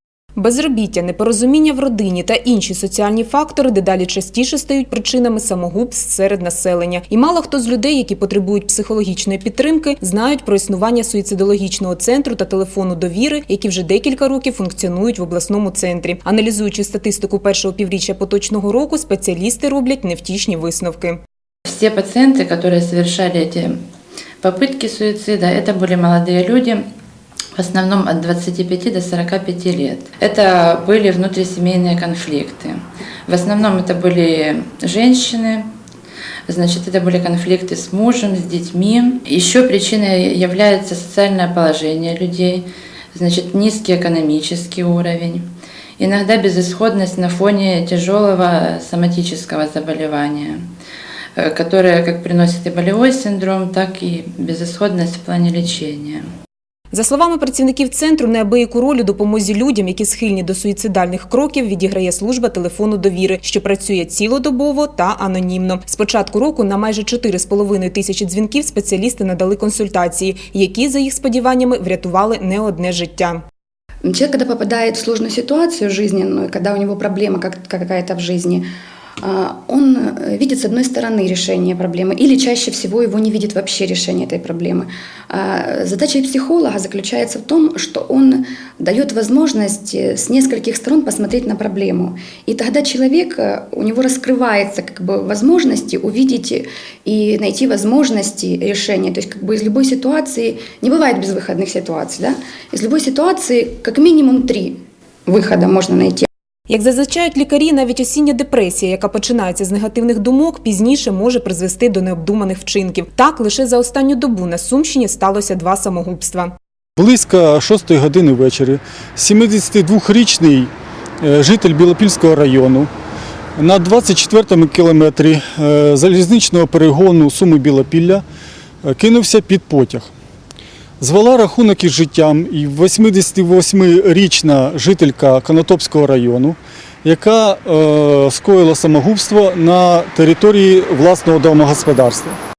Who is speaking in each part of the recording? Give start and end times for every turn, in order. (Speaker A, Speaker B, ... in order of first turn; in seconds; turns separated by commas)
Speaker A: 0.3-21.2, Speaker B: 21.7-23.8, Speaker B: 24.4-26.8, Speaker B: 27.6-35.7, Speaker B: 36.5-45.5, Speaker B: 46.0-50.6, Speaker B: 51.4-56.2, Speaker A: 56.9-73.4, Speaker C: 74.0-78.6, Speaker C: 79.2-106.2, Speaker A: 106.7-116.5, Speaker D: 117.0-120.7, Speaker D: 121.2-122.9, Speaker D: 123.6-128.2, Speaker D: 128.8-130.1, Speaker D: 131.0-142.4